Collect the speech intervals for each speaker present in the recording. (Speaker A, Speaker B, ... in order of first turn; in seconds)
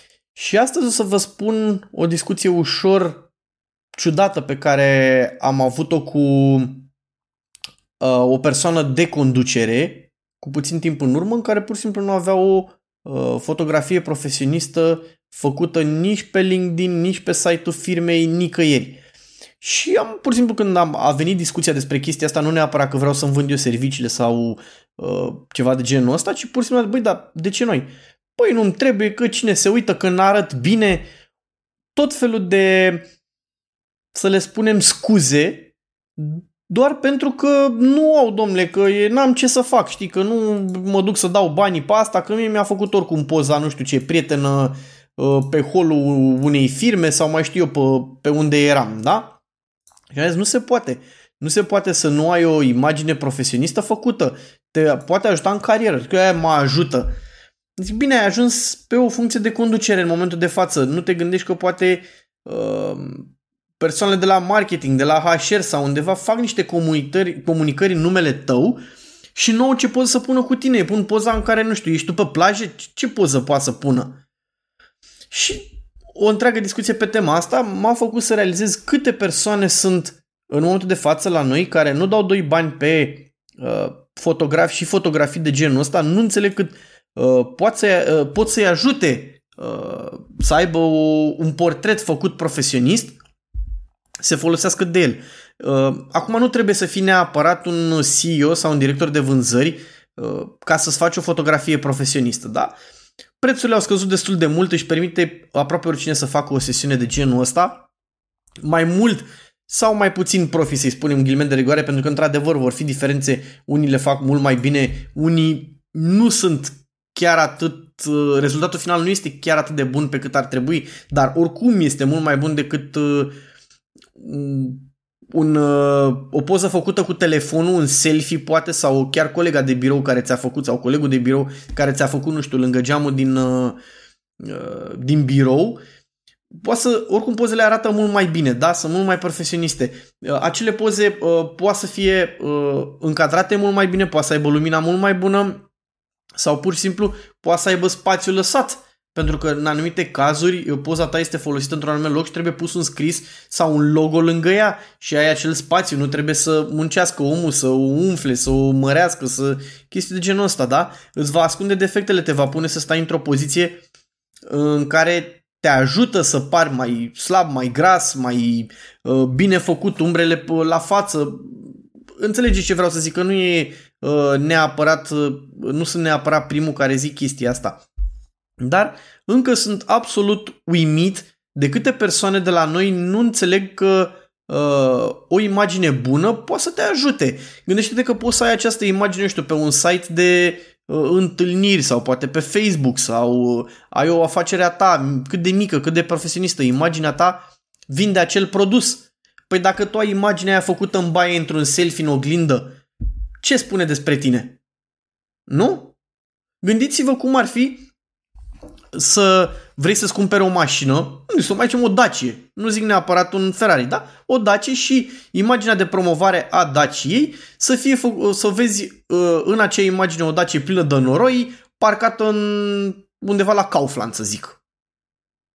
Speaker A: 0.3-3.3, 3.9-6.9, 8.0-19.0, 19.6-31.1, 31.9-33.0, 34.1-49.4, 50.1-57.1, 57.8-68.8, 69.3-74.2, 75.3-93.2, 94.2-102.8, 103.4-107.9, 108.6-123.3, 124.2-133.8, 134.4-135.8, 136.5-145.7, 146.4-163.8, 164.5-177.8, 178.6-202.8, 203.4-204.6, 205.5-205.9, 206.6-207.9, 208.9-224.6